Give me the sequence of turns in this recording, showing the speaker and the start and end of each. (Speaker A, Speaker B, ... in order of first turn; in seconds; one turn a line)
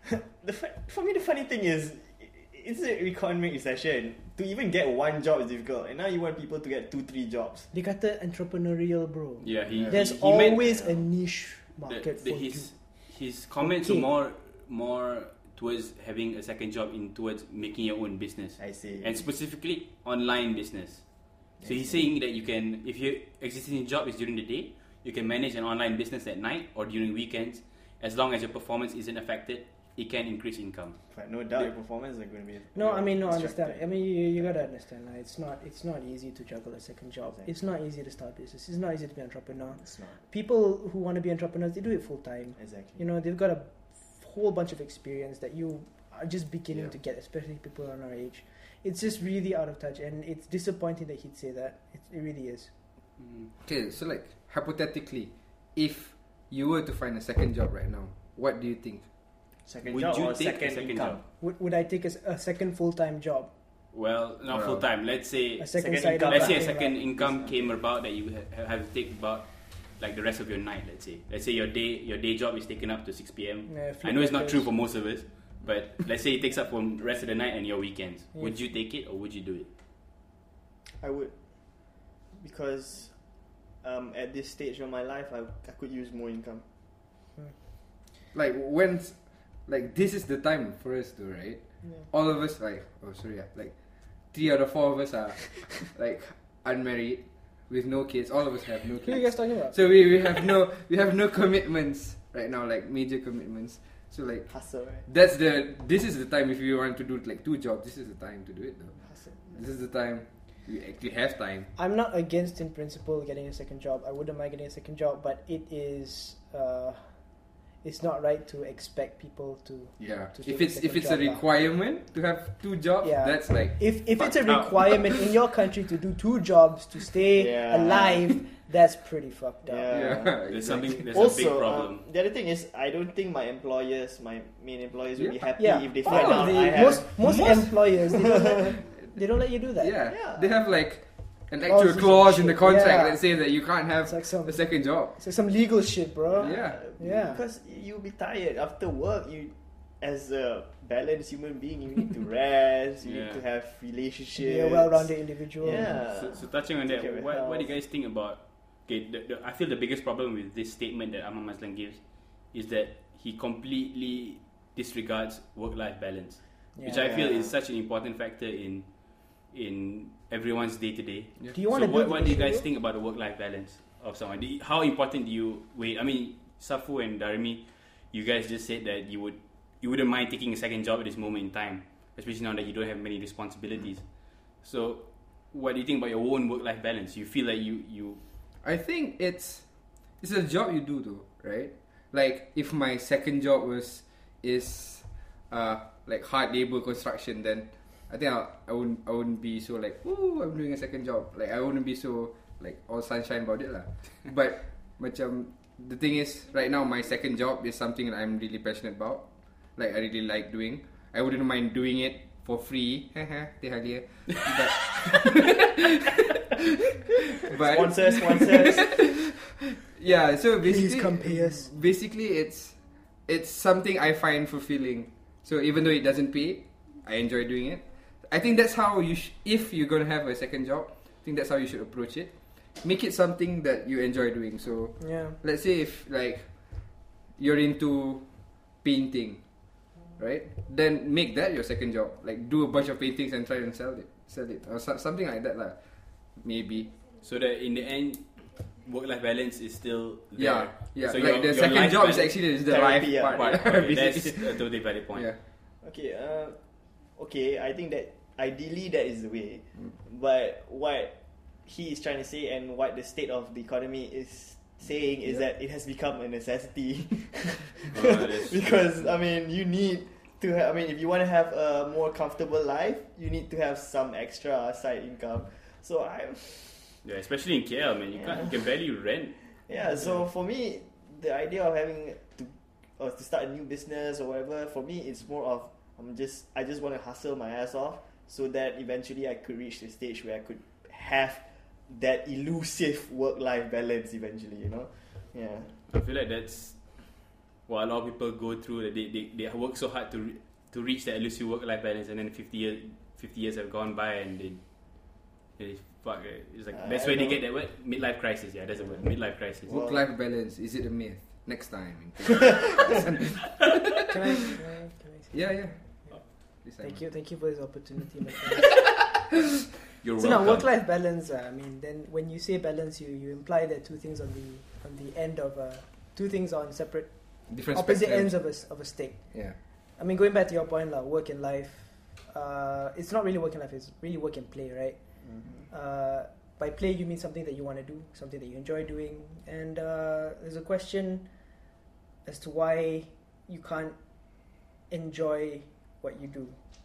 Speaker A: 0.4-7.7
Speaker B: 7.7-12.8
Speaker C: 9.4-10.7
Speaker D: 9.7-10.0
Speaker A: 10.3-11.1
Speaker C: 11.9-31.0
Speaker B: 13.6-14.1
Speaker A: 18.6-19.2
Speaker A: 21.6-22.1
Speaker A: 31.1-34.6
Speaker B: 32.8-52.7
Speaker A: 37.3-37.5
Speaker A: 39.7-40.2
Speaker A: 42.6-43.0
Speaker C: 53.2-53.5
Speaker D: 53.6-59.1
Speaker A: 59.7-61.2
Speaker C: 59.8-61.2
Speaker B: 61.4-63.5
Speaker C: 63.9-79.7
Speaker D: 64.5-64.9
Speaker B: 65.6-67.0
Speaker A: 65.8-67.7
Speaker B: 73.7-74.7
Speaker B: 78.3-78.6
Speaker A: 81.0-86.6
Speaker D: 88.3-111.7
Speaker B: 99.0-100.1
Speaker A: 104.5-105.0
Speaker B: 111.8-117.2
Speaker B: 117.8-121.4
Speaker D: 120.0-124.0
Speaker B: 123.0-130.0
Speaker C: 124.3-124.7
Speaker A: 127.3-128.4
Speaker A: 129.7-138.8
Speaker D: 129.9-130.9
Speaker C: 130.5-132.0
Speaker D: 135.2-137.3
Speaker B: 135.6-140.0
Speaker D: 139.6-145.2
Speaker A: 140.1-140.6
Speaker B: 141.7-143.4
Speaker B: 144.0-147.4
Speaker A: 146.3-157.7
Speaker D: 146.4-146.8
Speaker C: 153.0-153.4
Speaker B: 154.4-156.0
Speaker C: 155.7-188.2
Speaker B: 166.8-167.1
Speaker A: 166.9-167.5
Speaker B: 171.5-172.7
Speaker D: 188.6-215.7
Speaker D: 217.4-246.9
Speaker A: 217.6-219.1
Speaker B: 220.6-221.7
Speaker B: 235.0-235.4
Speaker C: 247.2-252.5
Speaker D: 250.4-255.4
Speaker A: 252.7-253.8
Speaker C: 253.3-255.3
Speaker A: 255.8-256.6
Speaker A: 257.1-261.1
Speaker A: 261.6-277.0
Speaker C: 267.9-268.9
Speaker C: 277.0-279.4
Speaker A: 278.1-278.6
Speaker A: 279.7-295.8
Speaker C: 295.9-309.8
Speaker A: 306.7-307.4
Speaker A: 309.6-310.0
Speaker D: 309.7-313.9
Speaker B: 314.1-315.6
Speaker D: 315.3-317.0
Speaker B: 316.8-318.9
Speaker C: 320.0-320.7
Speaker B: 320.2-335.0
Speaker D: 327.5-329.6
Speaker A: 335.3-335.6
Speaker B: 335.7-341.3
Speaker B: 342.2-344.0
Speaker B: 344.9-346.6